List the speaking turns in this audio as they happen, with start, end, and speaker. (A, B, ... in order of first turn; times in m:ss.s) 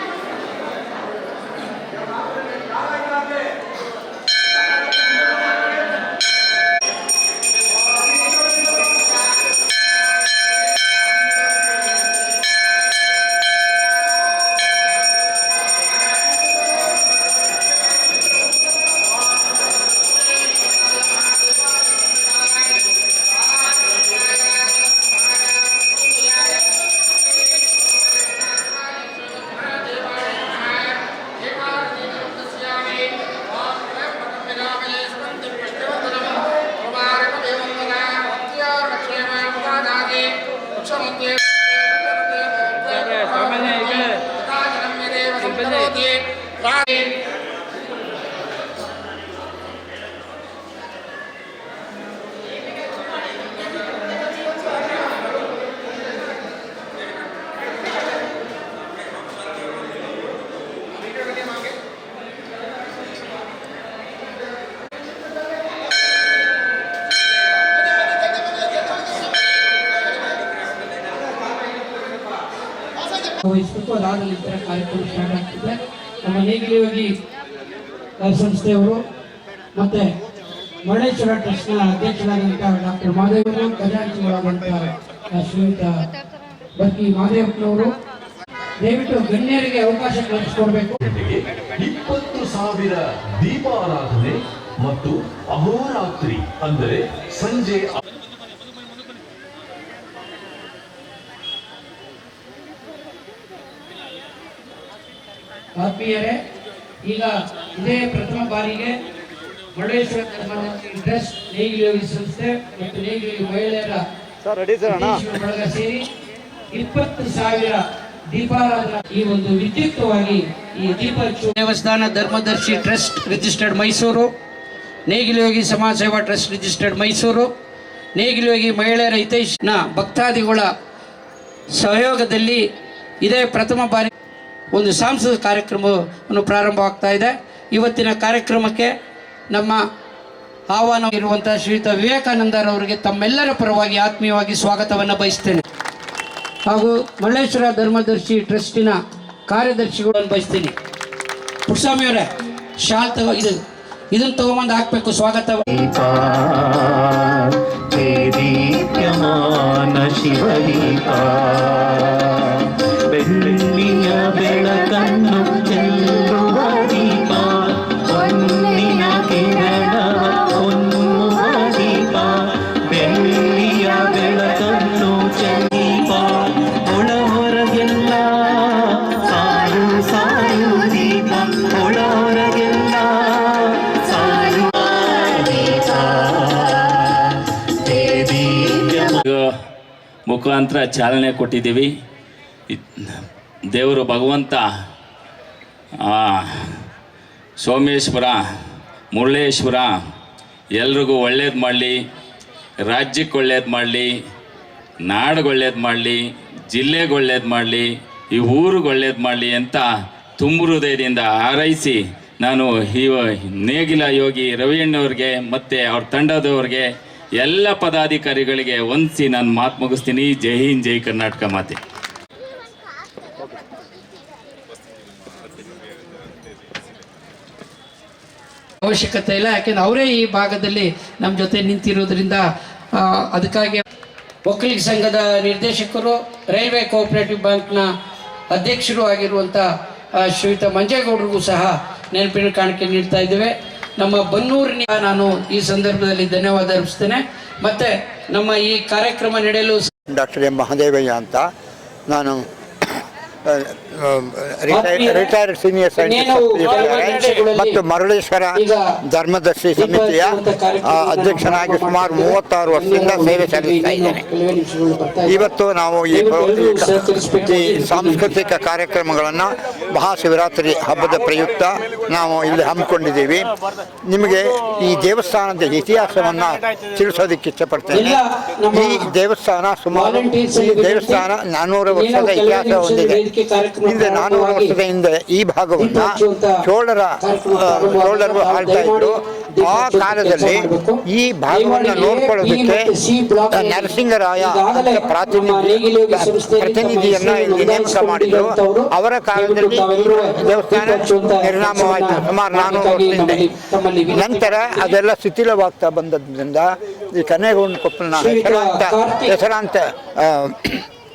0:43.3-0:44.0 A
0:45.5-0:45.9 A
1:13.4-1:17.1 B
1:18.2-1:19.0 B
1:19.7-1:20.1 B
1:20.8-1:25.9 B
1:26.8-1:27.9 B
1:28.8-1:31.0 B
1:31.0-1:38.0 C
1:45.8-1:46.4 B
1:47.0-1:49.0 B
1:49.7-1:54.0 B
1:54.4-1:55.2 D
1:54.9-1:56.1 B
1:56.7-2:04.3 B
2:05.0-2:07.5 B
2:08.1-2:10.7 B
2:11.7-2:12.6 B
2:13.2-2:14.1 B
2:14.7-2:18.9 B
2:19.5-2:19.8 B
2:20.7-2:25.6 B
2:26.7-2:30.7 B
2:31.7-2:32.3 B
2:32.8-2:33.6 B
2:34.1-2:35.6 B
2:35.7-3:09.1 E
3:09.0-3:09.4 A
3:10.3-3:11.9 A
3:12.7-3:13.1 A
3:13.7-3:14.6 A
3:16.0-3:16.8 A
3:17.6-3:18.4 A
3:19.1-3:19.9 A
3:20.7-3:21.9 A
3:22.9-3:24.1 A
3:25.0-3:26.2 A
3:26.7-3:29.8 A
3:30.4-3:36.8 A
3:37.4-3:41.8 A
3:48.8-3:53.8 B
3:54.4-3:57.9 B
3:58.5-3:59.6 B
4:00.2-4:09.8 B
4:10.1-4:11.4 D
4:12.1-4:24.2 D
4:14.7-4:15.3 B
4:16.0-4:17.8 B
4:18.5-4:18.8 B
4:19.8-4:25.4 B
4:25.3-4:33.5 D
4:26.1-4:28.3 B
4:34.1-4:38.2 D
4:37.9-4:39.1 B
4:38.7-4:43.2 D
4:39.9-4:41.2 B
4:41.9-4:44.7 B
4:43.8-4:52.9 D
4:45.8-4:46.6 B
4:47.2-5:04.9 B
4:53.5-5:03.5 D
5:04.1-5:10.8 D
5:08.1-5:09.3 B